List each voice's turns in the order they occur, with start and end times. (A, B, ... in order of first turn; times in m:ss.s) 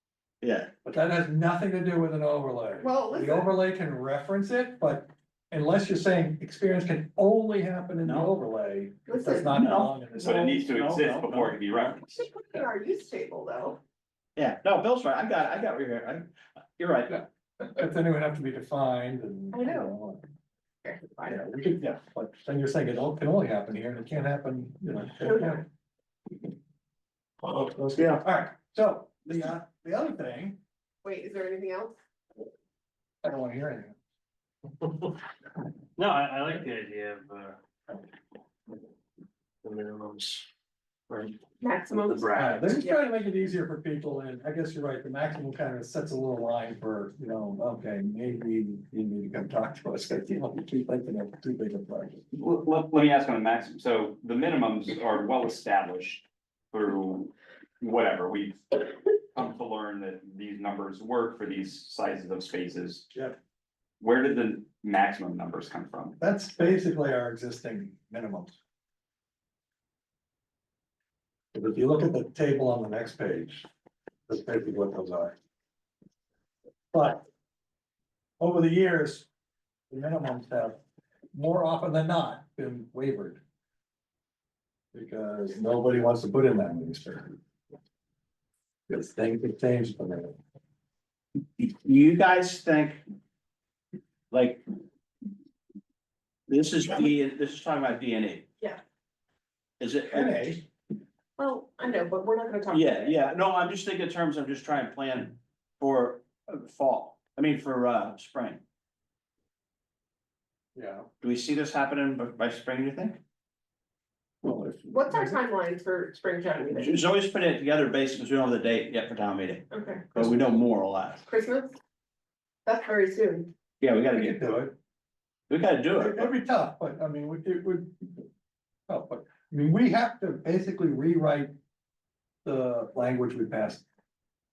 0:00.4-0:00.7 A
0:00.8-0:10.7 B
0:02.8-0:03.5 C
0:08.0-0:08.3 A
0:09.1-0:09.6 C
0:09.5-0:10.1 A
0:10.2-0:12.2 D
0:10.6-0:11.9 A
0:12.2-0:13.8 C
0:14.4-0:16.2 A
0:16.8-0:17.2 A
0:17.1-0:20.3 B
0:19.5-0:19.9 C
0:20.8-0:21.4 C
0:21.3-0:25.6 B
0:25.2-0:25.6 C
0:27.4-0:28.1 E
0:28.2-0:30.6 B
0:31.0-0:32.0 C
0:33.2-0:34.0 B
0:36.0-0:37.6 E
0:39.6-0:40.5 E
0:41.1-0:41.4 E
0:41.6-0:42.9 C
0:42.0-0:42.8 E
0:42.3-0:52.2 B
0:52.3-1:03.1 D
1:04.0-1:06.2 D
1:06.2-1:08.6 B
1:11.5-1:13.7 B
1:14.3-1:15.3 B
1:16.9-1:17.2 B
1:18.4-1:19.3 B
1:19.9-1:20.8 B
1:21.3-1:23.4 B
1:24.9-1:27.3 B
1:28.9-1:30.4 B
1:31.6-1:33.0 A
1:34.3-1:34.6 A
1:36.5-1:38.4 A
1:39.8-1:40.6 A
1:40.1-1:40.6 B
1:41.4-1:43.1 C
1:42.7-1:48.6 A
1:50.7-1:51.1 B
1:51.2-1:53.2 A
1:54.4-1:55.4 B
1:54.9-1:57.0 C
1:56.7-2:01.2 A
1:59.7-2:00.1 C
2:01.2-2:01.8 C
2:02.6-2:03.5 C
2:03.8-2:04.4 A
2:04.1-2:04.8 B
2:05.5-2:06.3 A
2:06.0-2:08.3 B
2:08.9-2:11.5 B
2:12.4-2:13.8 B